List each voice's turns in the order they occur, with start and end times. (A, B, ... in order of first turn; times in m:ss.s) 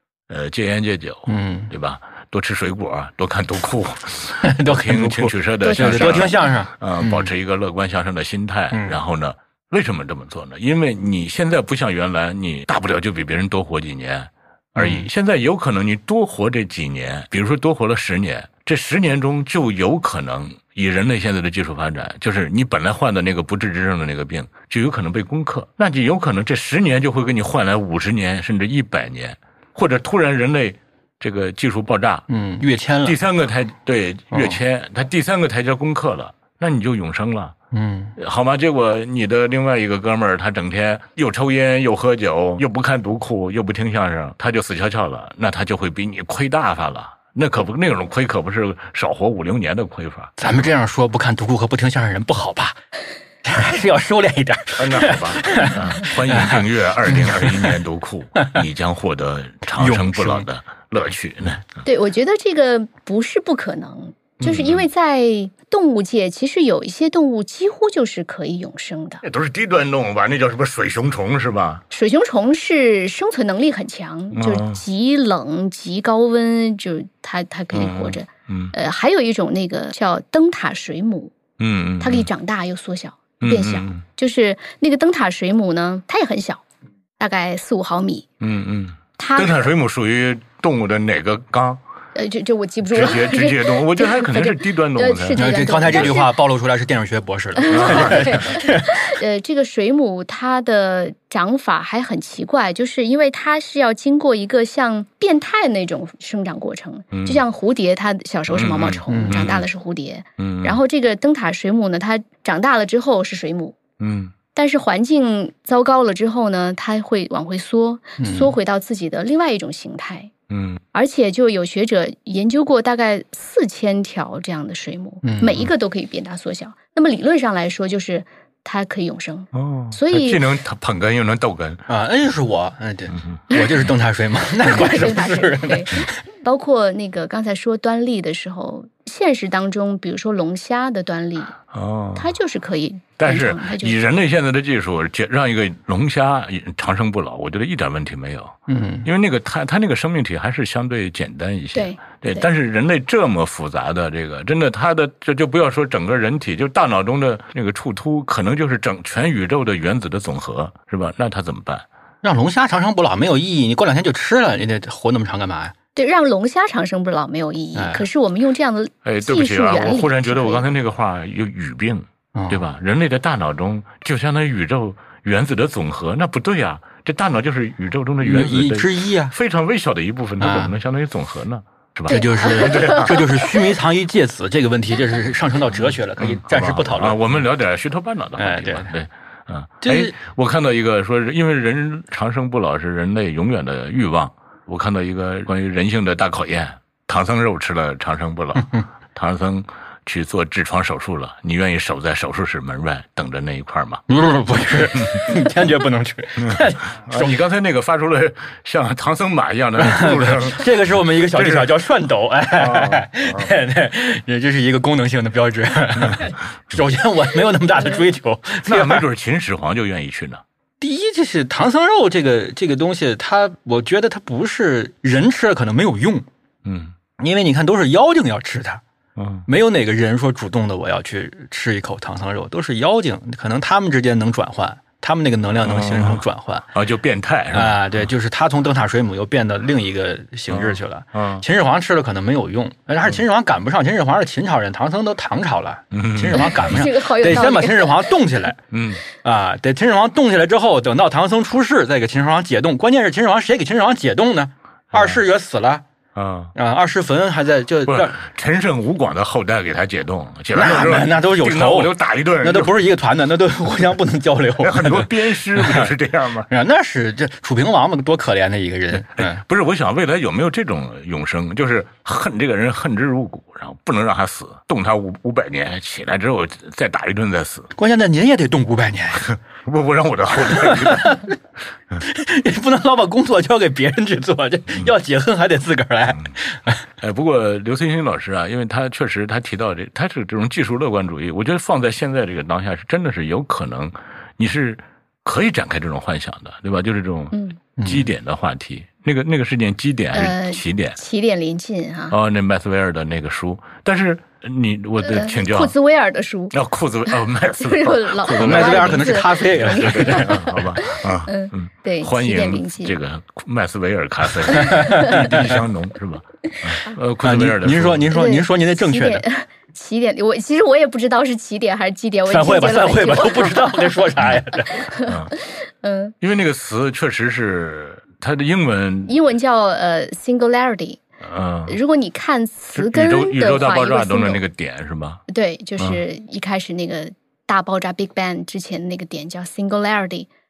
0:00.3-0:32.2 A
0:01.3-0:01.7 B
0:04.4-0:07.3 B
0:05.6-0:06.5 C
0:14.8-0:15.1 B
0:32.3-0:33.2 B
0:33.0-0:37.5 A
0:34.3-0:34.6 B
0:37.7-0:38.2 B
0:38.2-0:50.6 A
0:50.4-0:52.8 B
0:53.4-0:57.8 B
0:54.8-1:01.8 A
0:59.8-1:00.5 B
1:01.8-1:09.2 C
1:04.4-1:04.9 A
1:09.2-1:11.8 A
1:11.9-1:21.4 C
1:14.3-1:14.8 A
1:17.7-1:18.7 A
1:21.6-1:22.3 A
1:22.0-1:26.6 C
1:23.4-1:24.0 A
1:27.2-1:28.3 C
1:28.4-1:31.8 A
1:29.2-1:29.7 C
1:32.2-1:36.4 C
1:32.9-1:36.1 A
1:35.4-1:39.0 B
1:37.6-1:53.8 C
1:37.7-1:38.4 A
1:47.1-1:47.4 A
1:48.5-1:49.6 A
1:49.1-1:49.5 B
1:50.4-1:50.8 A
1:54.0-1:54.3 A
1:54.6-2:00.3 C
1:58.2-1:58.5 B
2:00.5-2:00.8 A
2:00.9-2:10.4 C
2:05.2-2:05.7 B
2:09.5-2:11.8 A
2:11.9-2:16.2 B
2:13.1-2:13.4 A
2:14.6-2:21.6 C
2:21.7-2:22.3 A
2:22.2-2:24.0 C
2:23.2-2:41.8 A
2:28.7-2:29.1 B
2:31.7-2:32.5 C
2:42.2-2:45.8 B
2:46.0-2:50.7 C
2:47.8-2:48.1 B
2:49.0-3:03.3 A
2:52.4-2:52.7 B
2:58.2-2:59.4 B
3:00.4-3:00.7 B
3:02.1-3:03.6 C
3:02.1-3:07.2 B
3:06.2-3:24.0 A
3:08.4-3:08.9 B
3:09.8-3:10.2 B
3:24.1-3:27.4 B
3:24.9-3:25.3 A
3:26.4-3:30.7 A
3:29.8-3:39.0 B
3:31.3-3:31.7 A
3:32.6-3:33.5 A
3:38.6-3:40.4 A
3:40.8-3:46.3 B
3:46.6-3:47.0 A
3:47.2-3:48.8 B
3:49.2-3:49.5 A
3:49.5-3:56.7 B
3:55.6-3:58.1 A
3:57.5-4:08.6 B
4:00.5-4:01.4 A
4:05.9-4:07.4 A
4:06.3-4:08.2 C
4:08.7-4:09.0 A
4:09.2-4:15.8 B
4:14.9-4:15.2 A
4:16.2-4:16.5 A
4:16.6-4:18.2 B
4:17.9-4:22.7 A
4:20.5-4:25.9 B
4:24.6-4:26.5 A
4:26.5-4:29.4 B
4:28.9-4:37.7 A
4:37.8-4:39.3 B
4:39.2-4:41.4 A
4:40.5-4:41.3 B
4:42.0-4:46.8 B
4:47.0-5:01.0 A
4:57.3-4:57.6 C
4:57.8-4:58.1 B
5:00.1-5:02.2 C
5:02.1-5:05.7 A
5:05.0-5:06.6 C
5:06.5-5:09.2 A
5:07.4-5:13.0 C
5:08.4-5:10.4 B
5:09.7-5:18.2 A
5:14.5-5:15.2 C
5:14.7-5:15.6 B
5:17.2-5:19.2 B
5:18.1-5:24.0 C
5:22.3-5:24.9 B
5:24.7-5:26.1 C
5:25.0-5:25.3 A
5:26.2-5:29.2 A
5:29.1-5:31.0 C
5:31.2-5:31.8 A
5:31.7-5:34.4 C
5:32.7-5:35.2 A
5:35.3-5:40.3 C